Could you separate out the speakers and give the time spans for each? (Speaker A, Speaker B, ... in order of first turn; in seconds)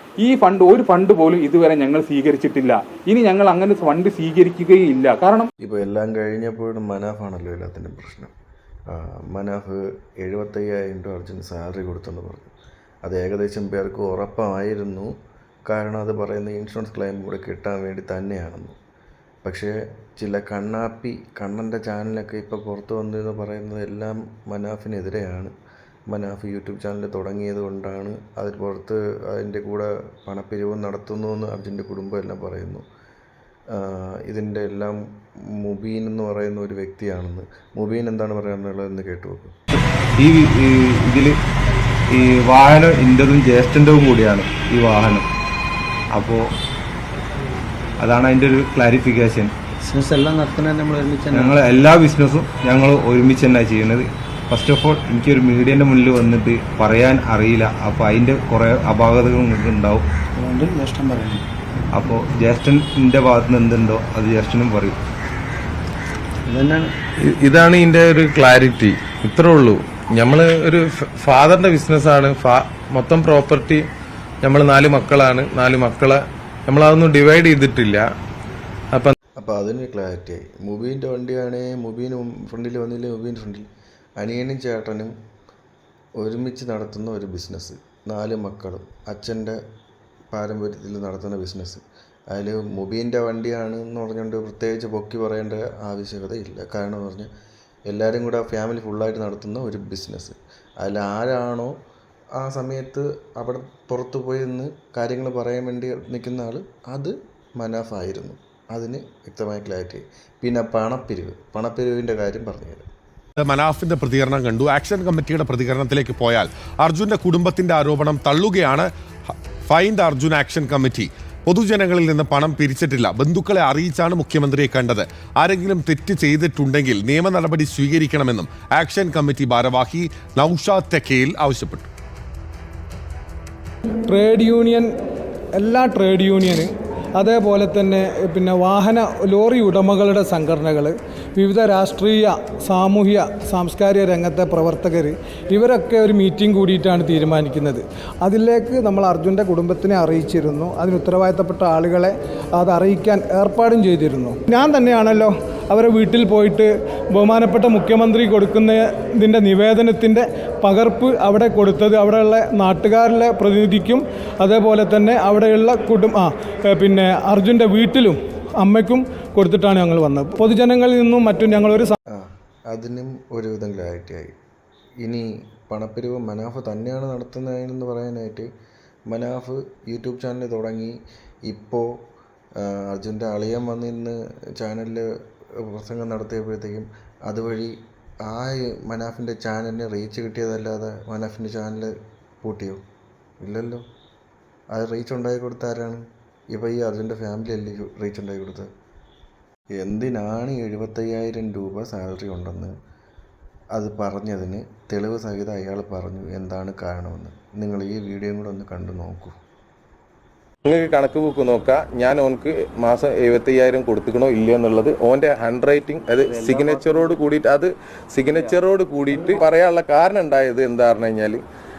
Speaker A: 0.2-5.5
Speaker B: 5.6-8.3, 8.9-12.5, 13.1-15.1, 15.7-18.8, 19.4-25.5, 26.1-32.8, 33.7-35.0, 35.5-39.5, 79.4-83.7, 84.2-85.1, 86.2-89.6, 90.3-97.3, 97.9-101.8, 102.4-112.9, 172.1-174.3, 175.0-178.5, 179.1-181.0, 181.5-181.9, 182.6-185.1, 185.6-187.7, 188.3-192.8, 193.4-193.8, 194.7-198.7, 199.8-202.7, 203.8-209.3
Speaker C: 40.2-41.4, 42.1-45.3, 46.1-46.5, 48.0-49.5, 51.3-60.1, 61.9-65.0
Speaker D: 49.8-51.6, 60.4-61.5, 66.5-66.9
Speaker E: 67.3-73.8, 74.4-78.0, 210.7-221.4
Speaker F: 113.4-118.9, 119.7-131.9
Speaker G: 134.1-134.9, 135.6-172.0